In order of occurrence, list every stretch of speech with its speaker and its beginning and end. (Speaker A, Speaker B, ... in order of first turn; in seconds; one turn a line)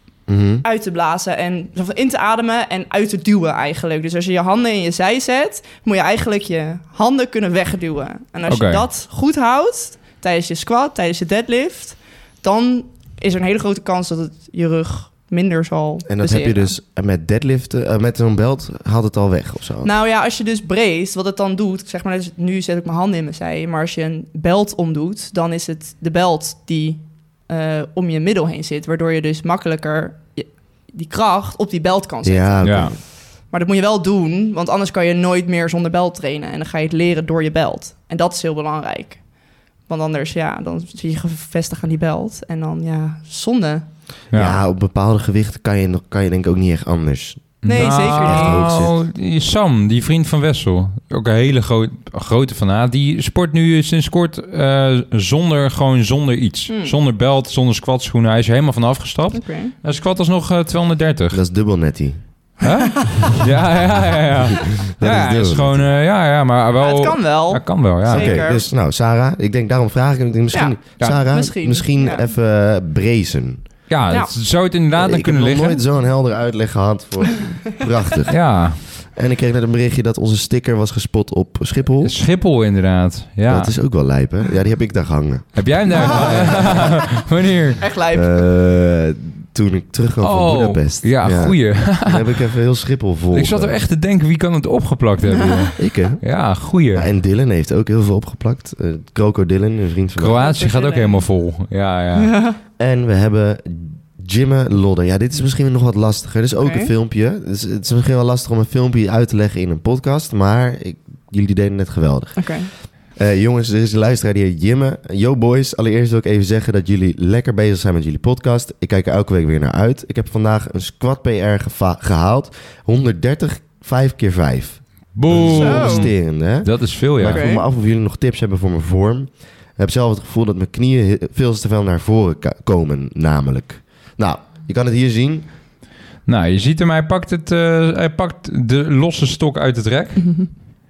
Speaker A: 0.3-0.6
Speaker B: 0.6-16.7
Speaker C: 8.5-8.8
Speaker A: 16.1-19.9
Speaker B: 19.8-39.2
Speaker A: 32.2-33.0
Speaker C: 32.6-32.9
Speaker B: 39.9-43.9
Speaker C: 44.3-44.6
Speaker A: 44.3-48.9
Speaker C: 47.6-61.4
Speaker B: 47.6-48.6
Speaker B: 56.7-57.0
Speaker B: 59.3-59.7
Speaker A: 61.3-62.2
Speaker C: 62.6-68.4
Speaker B: 62.6-63.3
Speaker A: 64.7-65.9
Speaker B: 66.8-68.6
Speaker A: 68.1-73.6
Speaker B: 70.5-72.3
Speaker C: 73.9-75.8
Speaker A: 75.0-82.1
Speaker C: 78.3-78.8
Speaker C: 82.0-83.7
Speaker A: 83.5-86.9
Speaker C: 85.5-87.8
Speaker B: 85.9-87.0
Speaker B: 87.8-88.4
Speaker A: 88.1-93.8
Speaker C: 90.2-92.3
Speaker C: 93.3-97.1
Speaker B: 95.2-95.7
Speaker A: 95.8-96.2
Speaker A: 96.9-100.4
Speaker C: 100.2-102.3
Speaker B: 100.3-101.3
Speaker B: 102.2-102.6
Speaker A: 102.8-112.5
Speaker B: 106.6-106.9
Speaker B: 112.4-112.7
Speaker A: 113.2-135.5
Speaker C: 125.1-127.5
Speaker B: 125.4-126.1
Speaker B: 127.2-127.6
Speaker C: 136.2-140.3
Speaker B: 140.2-140.5